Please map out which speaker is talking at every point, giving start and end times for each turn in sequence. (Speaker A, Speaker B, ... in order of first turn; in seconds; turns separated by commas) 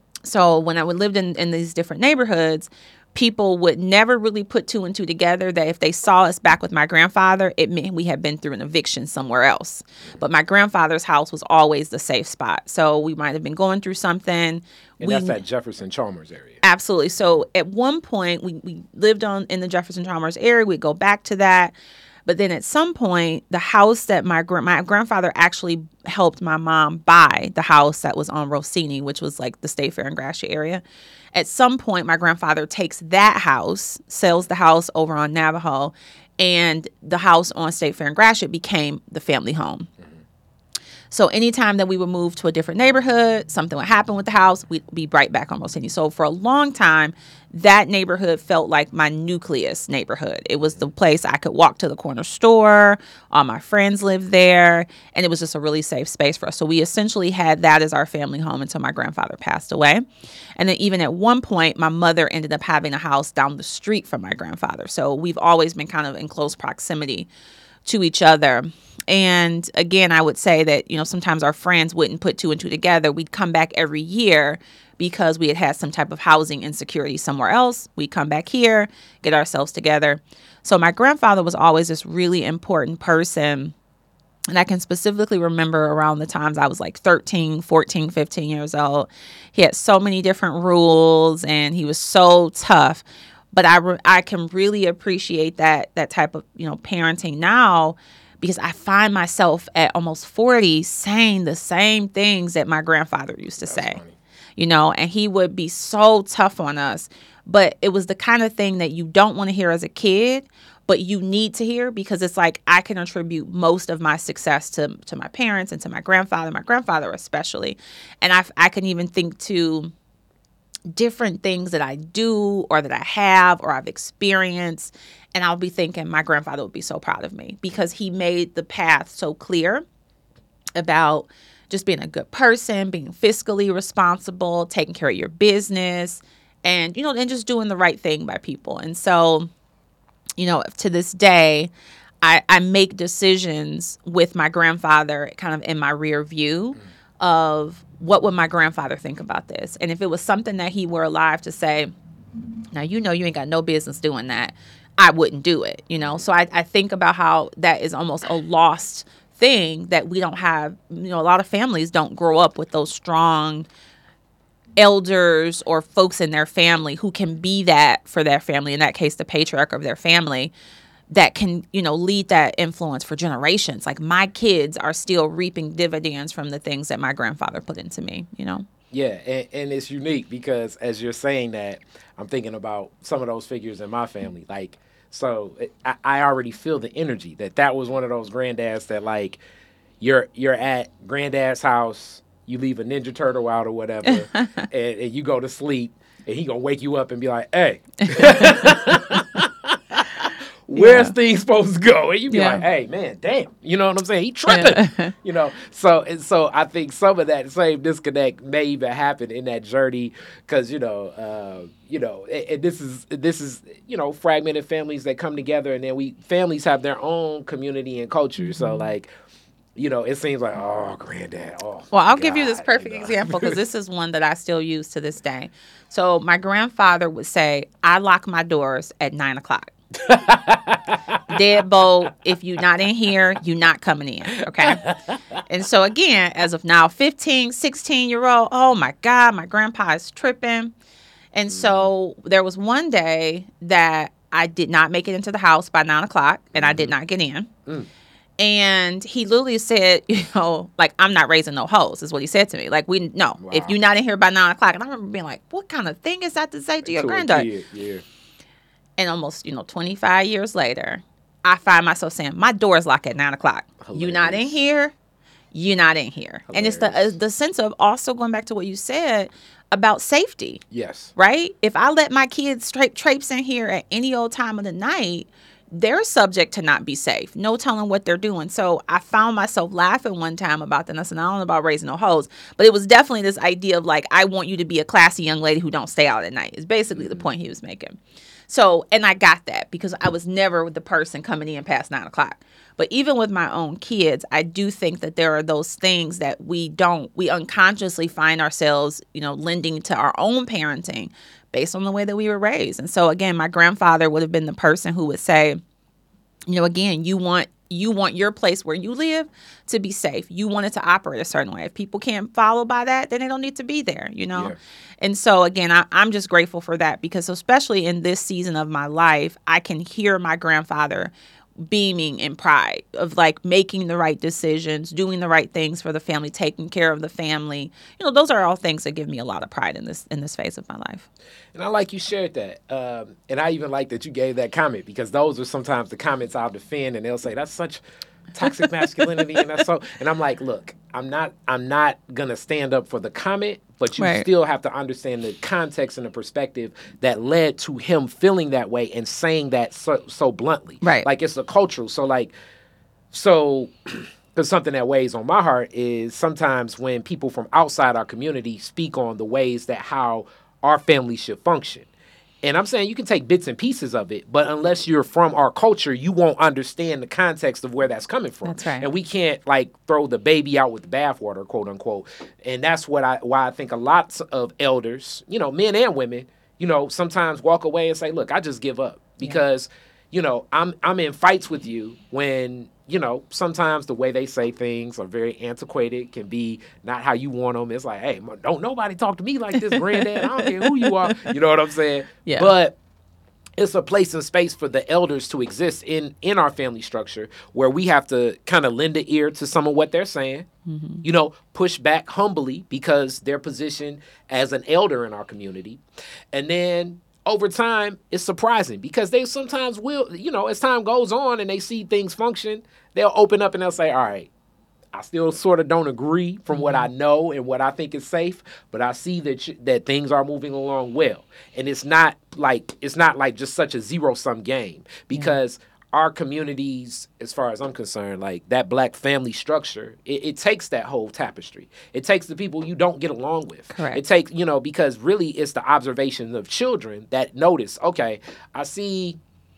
Speaker A: 0.2-15.4, Speaker B: 15.0-16.6, Speaker A: 16.6-21.7, Speaker A: 22.3-30.8, Speaker A: 31.3-39.9, Speaker A: 41.1-60.0, Speaker A: 60.6-67.3, Speaker A: 67.9-83.7, Speaker A: 84.5-104.0, Speaker B: 103.6-104.2, Speaker A: 104.6-119.9, Speaker A: 120.9-129.8, Speaker A: 130.8-139.5, Speaker A: 140.4-141.7, Speaker A: 142.2-151.9, Speaker A: 152.7-163.7, Speaker A: 164.8-170.5, Speaker A: 171.1-178.7, Speaker B: 178.9-189.4, Speaker B: 190.0-219.1, Speaker A: 194.1-194.6, Speaker A: 198.0-198.5, Speaker A: 200.8-201.1, Speaker A: 202.3-202.6, Speaker A: 204.5-205.1, Speaker A: 218.4-218.9, Speaker B: 219.8-223.6, Speaker A: 221.9-229.7, Speaker B: 230.0-231.4, Speaker A: 231.3-234.9, Speaker B: 234.6-235.4, Speaker A: 235.5-240.7, Speaker A: 241.3-247.5, Speaker B: 241.5-241.9, Speaker B: 246.5-246.9, Speaker A: 248.4-257.5, Speaker B: 253.4-253.8, Speaker B: 256.8-258.0, Speaker A: 259.0-264.9, Speaker B: 263.8-264.6, Speaker A: 265.5-270.6, Speaker B: 266.5-267.1, Speaker B: 270.7-271.1, Speaker A: 271.1-288.0, Speaker B: 286.9-287.3, Speaker A: 288.5-305.6, Speaker A: 306.5-321.1, Speaker A: 321.7-331.1, Speaker B: 331.6-337.8, Speaker B: 338.3-352.3, Speaker A: 344.0-344.3, Speaker A: 350.8-351.1, Speaker B: 353.1-361.9, Speaker B: 362.4-392.8, Speaker A: 368.4-368.9, Speaker A: 389.6-391.4, Speaker A: 392.2-392.5, Speaker B: 393.6-400.5, Speaker A: 400.7-401.1, Speaker B: 401.0-405.8, Speaker B: 406.3-414.3, Speaker B: 414.9-439.2, Speaker A: 416.5-416.9, Speaker A: 433.7-434.0